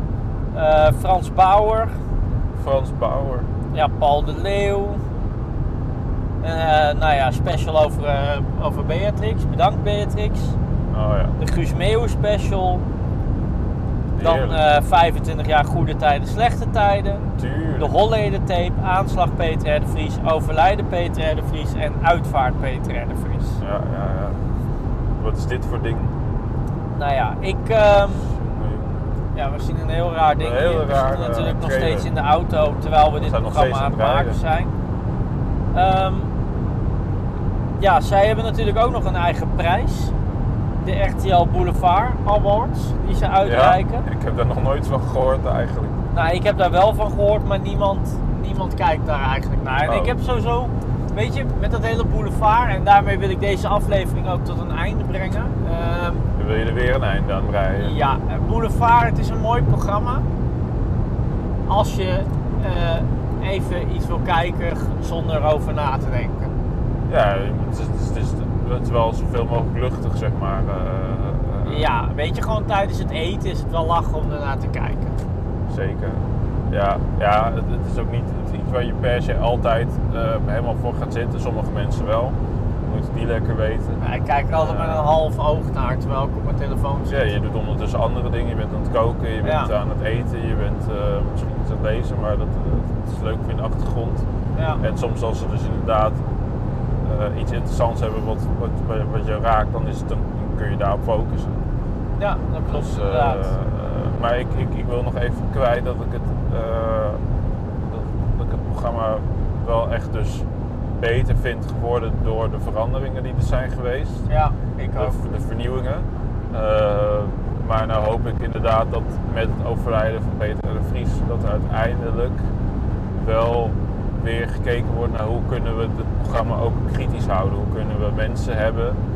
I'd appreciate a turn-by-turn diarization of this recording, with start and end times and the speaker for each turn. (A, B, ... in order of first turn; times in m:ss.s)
0:00.5-0:01.9 A
0:02.6-0:03.5 B
0:03.7-0:05.0 A
0:06.4-0:10.6 A
0:10.9-0:11.4 B
0:11.4-0:12.8 A
0:14.2-0:14.6 B
0:14.2-0:23.6 A
0:17.4-0:17.9 B
0:23.6-0:24.4 B
0:25.2-0:26.1 B
0:27.0-0:28.3 A
0:28.1-0:29.2 B
0:29.4-0:34.7 A
0:30.4-0:32.1 B
0:33.2-0:34.4 B
0:35.7-0:36.3 A
0:37.8-0:40.1 A
0:40.8-0:44.0 A
0:43.4-0:46.0 B
0:46.1-0:56.3 A
0:49.8-0:50.2 B
0:56.4-0:58.0 B
0:57.8-1:00.2 A
1:01.7-1:06.6 A
1:07.1-1:11.9 B
1:11.6-1:15.2 A
1:15.7-1:24.0 B
1:24.0-1:27.3 A
1:24.5-1:25.2 B
1:27.1-1:34.3 B
1:29.4-1:29.7 A
1:34.6-1:34.8 A
1:34.8-1:36.2 B
1:37.0-1:41.6 B
1:42.2-1:43.5 A
1:42.7-1:47.2 B
1:47.8-1:54.3 B
1:54.3-1:55.2 A
1:54.9-2:02.4 B
2:03.2-2:09.0 B